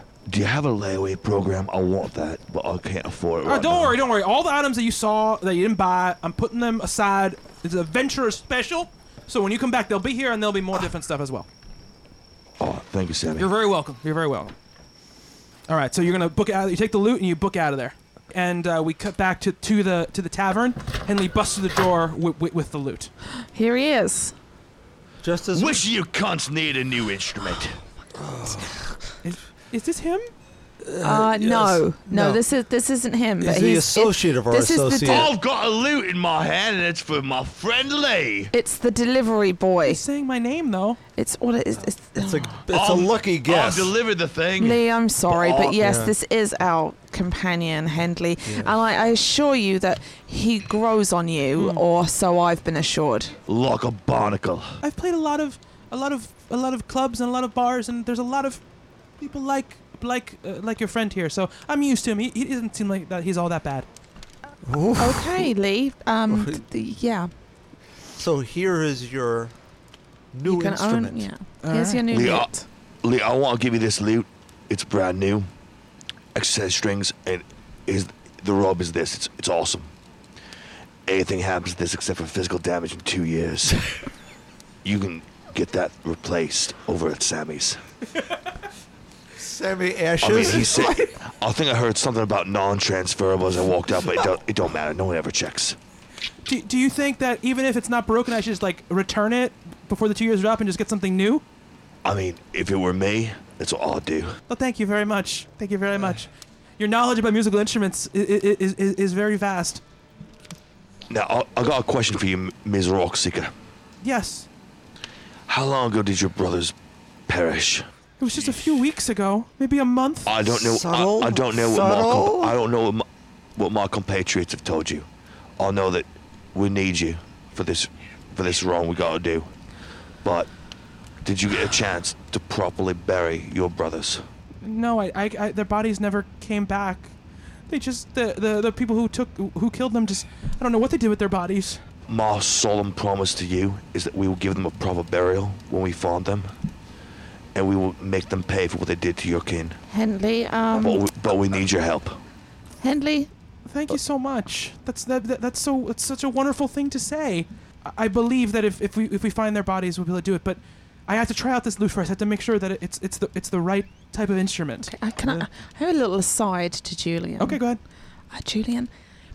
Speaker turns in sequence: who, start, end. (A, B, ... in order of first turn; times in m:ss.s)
0:00.3-0:04.0 A
0:03.4-0:11.5 B
0:12.6-0:13.5 A
0:13.4-0:14.5 B
0:15.7-0:23.1 B
0:23.5-0:24.3 C
0:25.2-0:25.8 D
0:25.5-0:27.8 A
0:28.1-0:28.9 D
0:29.2-0:30.3 B
0:30.8-0:32.4 D
0:31.0-0:35.3 C
0:33.4-0:35.3 D
0:35.0-0:38.5 A
0:38.5-0:40.0 C
0:39.8-0:41.0 B
0:41.2-0:42.4 C
0:42.2-0:43.9 D
0:42.7-0:45.8 A
0:44.6-0:53.3 C
0:45.8-0:46.1 D
0:48.4-0:48.8 D
0:51.5-0:51.8 B
0:53.5-0:54.8 A
0:54.8-0:58.6 B
0:59.2-1:03.9 B
1:04.6-1:05.5 D
1:05.0-1:07.3 C
1:06.3-1:06.6 D
1:08.2-1:09.5 D
1:10.3-1:11.3 D
1:10.4-1:12.6 C
1:11.6-1:12.0 B
1:12.1-1:12.5 A
1:13.0-1:15.5 A
1:16.3-1:19.9 A
1:21.0-1:24.0 A
1:24.8-1:27.8 A
1:29.4-1:31.1 D
1:30.2-1:35.8 A
1:36.4-1:41.4 B
1:42.0-1:44.4 A
1:44.5-1:49.8 B
1:51.1-1:53.5 A
1:54.0-1:54.5 B
1:55.5-1:56.7 A
1:57.3-1:57.8 A
1:58.2-2:00.3 B
1:58.4-1:58.6 A
2:00.2-2:05.0 A
2:00.4-2:02.6 D
2:05.6-2:09.5 A
2:10.2-2:10.5 A
2:11.2-2:14.3 A
2:14.6-2:17.1 B
2:17.7-2:21.8 B
2:22.1-2:26.5 A
2:27.5-2:29.8 A
2:29.9-2:31.0 C
2:30.7-2:32.2 A
2:32.8-2:33.3 C
2:33.7-2:44.9 B
2:44.9-2:47.6 C
2:47.4-2:47.8 B
2:48.3-2:48.9 C